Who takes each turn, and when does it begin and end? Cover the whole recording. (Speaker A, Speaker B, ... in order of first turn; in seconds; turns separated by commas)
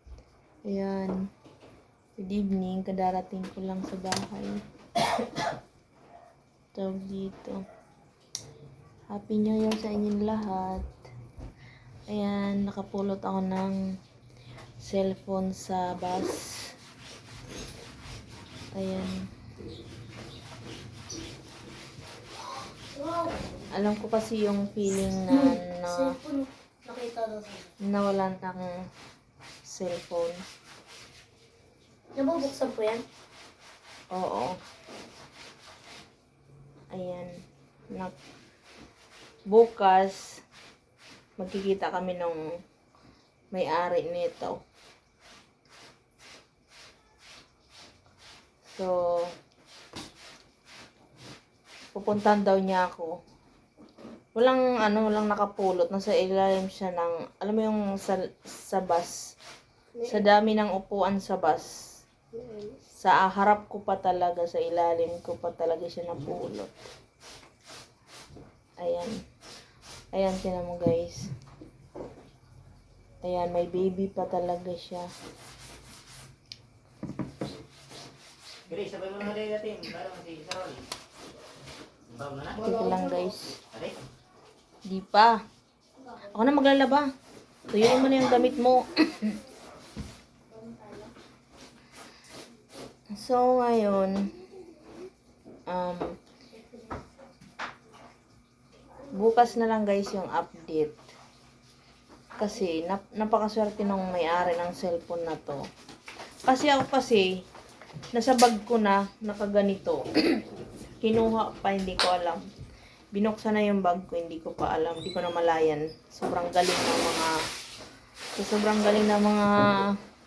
Speaker A: 0.7-1.2, Speaker A: 2.2-4.6, Speaker A: 6.8-7.6, Speaker A: 9.1-10.9, Speaker A: 12.1-13.8, Speaker A: 14.8-16.4, Speaker A: 18.8-19.2, Speaker B: 23.0-23.4, Speaker A: 23.7-26.1, Speaker B: 25.3-27.7, Speaker A: 27.9-28.8, Speaker A: 29.7-30.4, Speaker B: 32.2-33.0, Speaker A: 34.1-34.6, Speaker A: 36.9-37.3, Speaker A: 39.5-40.2, Speaker A: 41.4-42.4, Speaker A: 43.5-44.5, Speaker A: 48.8-49.3, Speaker A: 52.0-53.1, Speaker A: 54.4-59.1, Speaker A: 60.0-61.7, Speaker B: 62.3-62.8, Speaker A: 63.0-66.7, Speaker A: 68.8-69.2, Speaker A: 70.1-71.3, Speaker A: 73.2-75.1, Speaker C: 78.7-80.8, Speaker C: 82.1-82.8, Speaker A: 82.6-83.6, Speaker C: 83.5-84.0, Speaker A: 84.9-85.4, Speaker A: 86.2-87.1, Speaker A: 87.7-89.4, Speaker B: 90.5-91.1, Speaker A: 93.2-94.2, Speaker A: 95.7-96.1, Speaker A: 99.1-101.0, Speaker A: 102.4-105.6, Speaker A: 106.5-107.3, Speaker A: 108.1-110.4, Speaker A: 111.0-112.4, Speaker A: 113.1-117.3, Speaker A: 118.4-119.9